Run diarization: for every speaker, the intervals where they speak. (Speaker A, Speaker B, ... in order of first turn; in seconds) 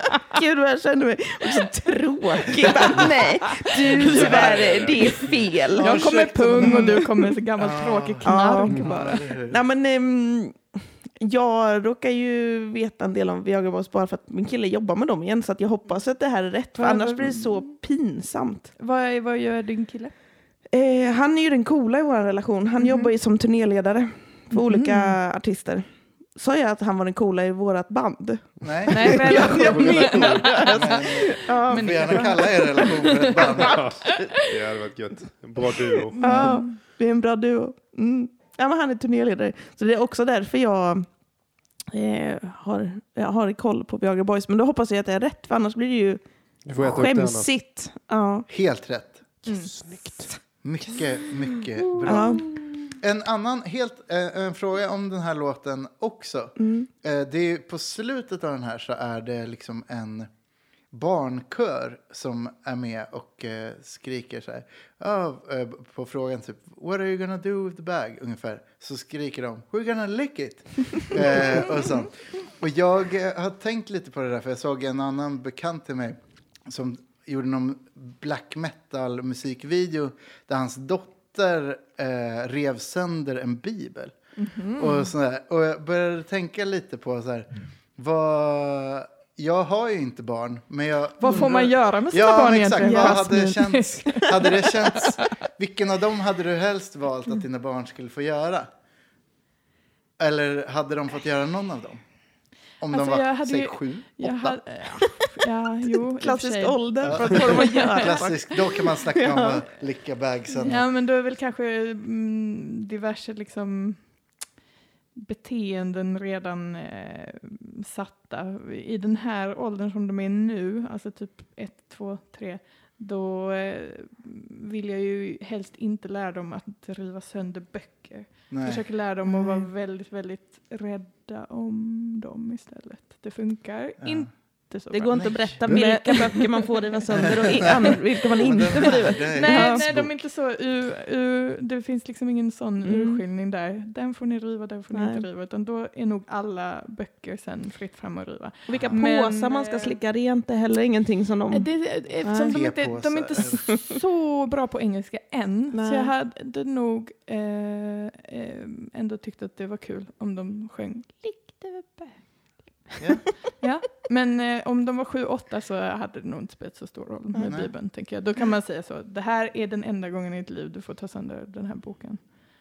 Speaker A: 0.2-7.1, 8.2-18.7, 20.7-32.3, 36.2-41.1, 41.9-46.2, 46.7-48.5, 52.0-52.6, 56.6-56.9, 92.8-93.4, 106.2-109.6, 129.3-129.7, 134.9-139.8, 142.8-143.2, 144.9-145.2, 148.7-151.7, 152.2-152.6, 155.7-156.1
Speaker B: 2.6-3.1, 3.8-9.6, 28.6-34.0, 48.5-49.3, 50.6-60.3, 60.9-84.1, 84.8-98.7, 100.2-102.0, 102.8-104.6, 107.0-110.9, 128.5-128.8, 134.0-134.3, 135.1-135.6, 137.1-140.2, 148.7-149.0, 152.4-153.7, 167.4-167.7
Speaker C: 2.9-5.1, 5.8-9.2, 16.7-17.6, 18.8-20.1, 22.8-23.1, 24.5-25.2, 28.9-34.4, 36.1-36.8, 49.5-49.7, 84.4-85.1, 91.2-95.3, 102.9-108.3, 110.6-114.0, 115.2-138.0, 138.7-150.0, 151.5-162.9, 163.6-172.2
Speaker D: 4.6-5.3, 29.5-30.5, 33.6-36.5, 46.7-47.5, 49.6-50.3